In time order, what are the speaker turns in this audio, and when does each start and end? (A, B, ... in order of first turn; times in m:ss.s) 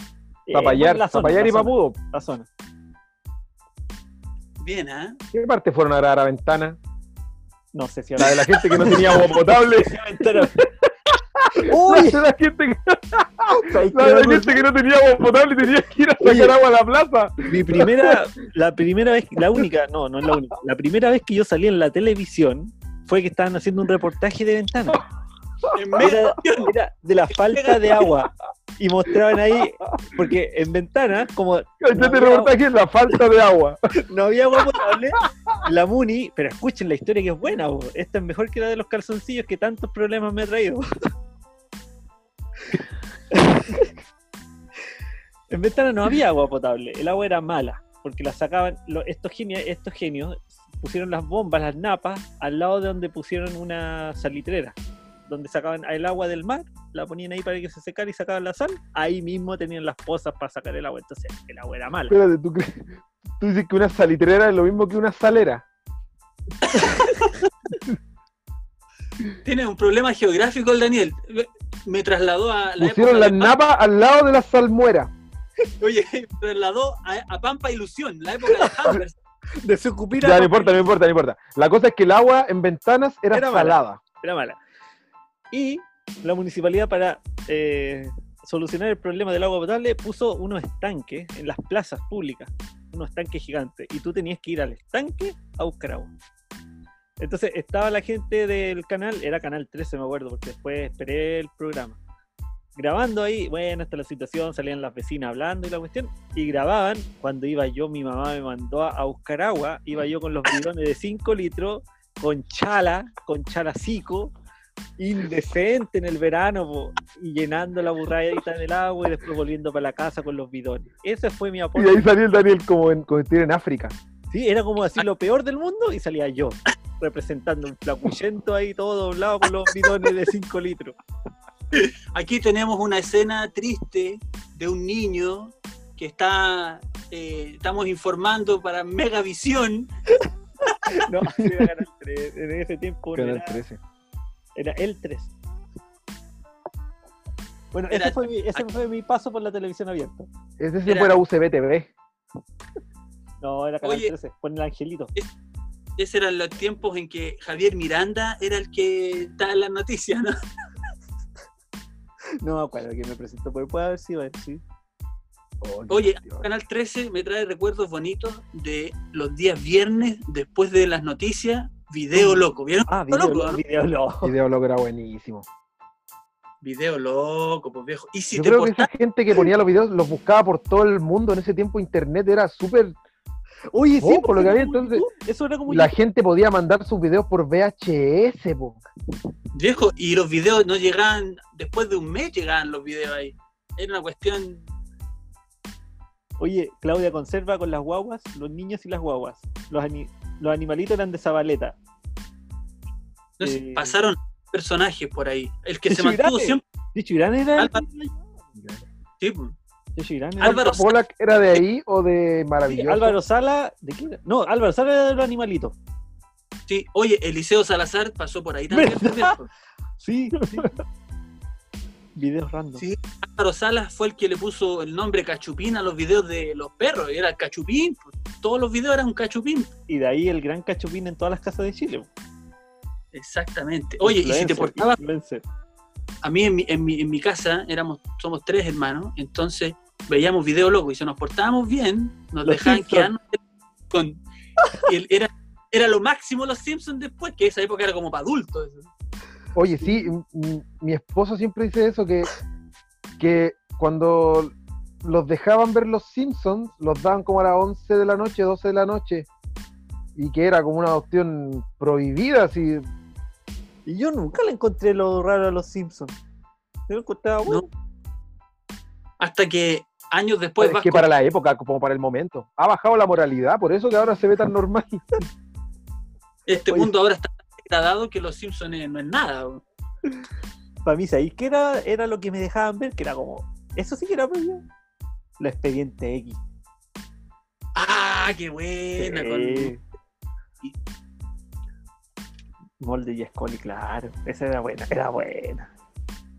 0:00.5-0:02.5 A
0:00.5-0:02.0 B
0:04.6-0:05.2 C
0:05.3-0:06.8 B
0:07.7-0:10.6 A
0:08.2-0:18.2 B
0:11.5-0:12.2 A
0:13.5-0:14.6 A
0:16.2-0:16.6 A
0:17.5-0:25.0 A
0:25.7-0:26.7 C
0:26.0-0:32.5 A
0:27.3-0:28.1 C
0:29.6-0:29.9 B
0:31.8-0:33.8 B
0:34.1-0:40.8 A
0:43.3-0:43.9 A
0:45.5-0:54.8 A
0:55.3-1:02.2 A
1:02.1-1:05.6 B
1:06.6-1:07.4 C
1:06.8-1:07.0 A
1:09.4-1:13.5 C
1:12.8-1:15.1 B
1:15.8-1:19.1 C
1:18.5-1:19.0 A
1:19.6-1:20.8 A
1:20.2-1:24.0 B
1:23.3-1:24.6 A
1:25.5-1:36.1 A
1:37.2-1:42.0 A
1:42.8-1:54.3 A
1:55.0-2:02.1 A
2:01.7-2:03.9 B
2:04.3-2:11.0 A
2:11.7-2:19.9 C
2:20.2-2:23.6 A
2:21.4-2:21.7 B
2:23.1-2:23.8 B
2:24.6-2:25.3 A
2:27.7-2:30.3 A
2:27.9-2:28.6 C
2:30.6-2:31.9 B
2:30.8-2:31.2 C
2:33.4-2:35.1 A
2:33.8-2:34.1 C
2:36.0-2:40.3 C
2:42.4-2:44.6 A
2:45.6-2:46.5 B
2:45.9-2:53.6 C
2:52.1-2:54.3 A
2:54.2-2:55.4 B
2:56.6-2:58.9 C
2:58.3-3:03.0 B
3:03.7-3:05.9 A
3:04.0-3:05.0 B
3:05.7-3:08.8 B
3:09.5-3:14.7 C
3:16.4-3:21.8 A
3:23.4-3:26.6 C
3:23.4-3:24.0 A
3:25.9-3:28.3 A
3:28.6-3:28.8 B
3:29.2-3:29.5 C
3:30.0-3:30.6 A
3:30.4-3:30.9 C
3:30.4-3:33.2 B
3:32.7-3:35.8 A
3:36.7-3:39.5 C
3:38.7-3:39.4 A
3:40.0-3:40.8 A
3:42.2-3:42.8 A
3:42.8-3:49.7 C
3:49.9-3:52.1 A
3:53.1-3:55.0 C
3:54.0-3:55.4 A
3:56.2-4:03.4 C
4:02.4-4:03.1 A
4:03.9-4:04.2 C
4:04.8-4:08.9 C
4:09.5-4:12.3 B
4:13.2-4:19.3 B
4:20.2-4:22.8 B
4:23.8-4:26.2 A
4:26.9-4:27.7 A
4:29.2-4:31.0 C
4:30.6-4:35.2 B
4:36.5-4:39.6 C
4:36.6-4:36.9 A
4:40.8-4:44.6 A
4:45.4-4:46.4 A
4:47.7-4:49.7 C
4:49.0-4:49.8 A
4:52.8-4:55.7 A